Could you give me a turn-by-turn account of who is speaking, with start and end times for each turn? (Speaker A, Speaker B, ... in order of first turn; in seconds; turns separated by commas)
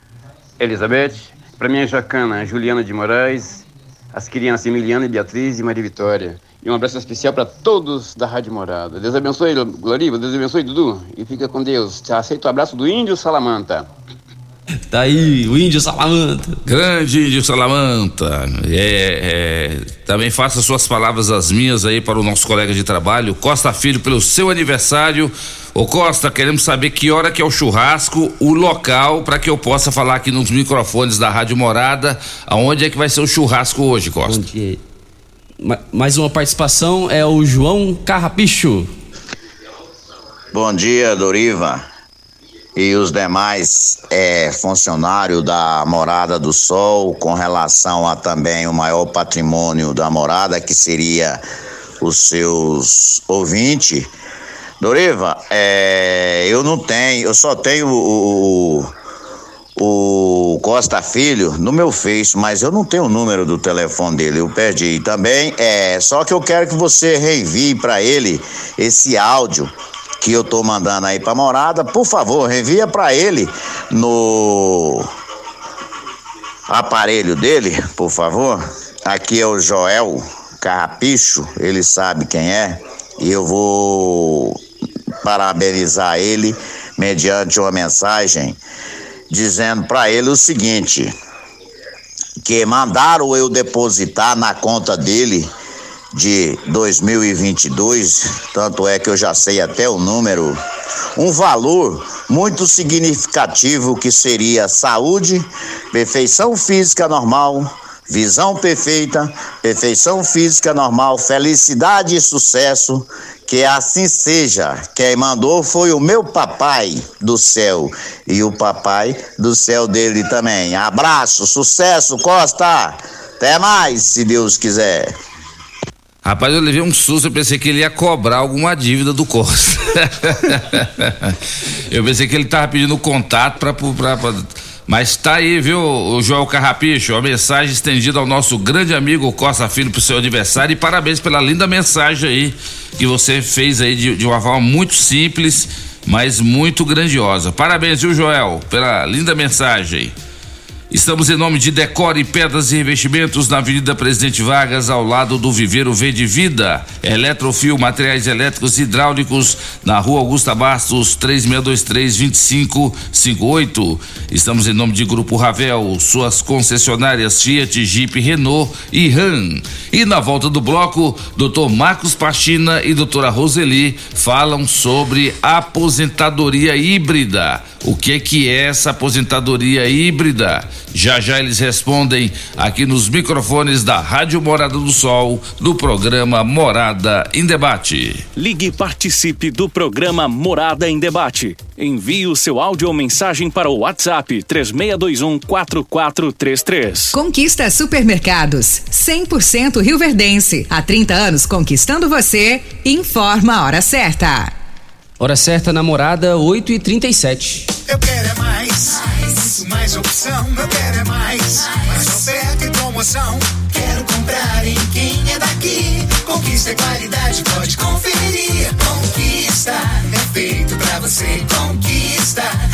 Speaker A: 0.6-13.9, Speaker B: 14.9-16.6, Speaker C: 16.7-34.4, Speaker B: 34.3-34.8, Speaker B: 35.6-38.9, Speaker D: 40.5-41.9, Speaker D: 42.8-51.4, Speaker D: 52.0-54.1, Speaker D: 54.8-58.9, Speaker D: 59.8-75.1, Speaker D: 76.7-84.6, Speaker D: 85.2-88.6, Speaker D: 89.3-91.1, Speaker D: 92.4-95.5, Speaker D: 96.1-100.6, Speaker D: 101.2-125.1, Speaker C: 126.2-131.4, Speaker C: 131.9-150.1, Speaker C: 150.9-188.2, Speaker E: 188.4-197.2, Speaker F: 197.1-204.5, Speaker B: 205.2-207.7, Speaker G: 207.9-209.0, Speaker G: 209.6-211.4, Speaker G: 212.0-213.4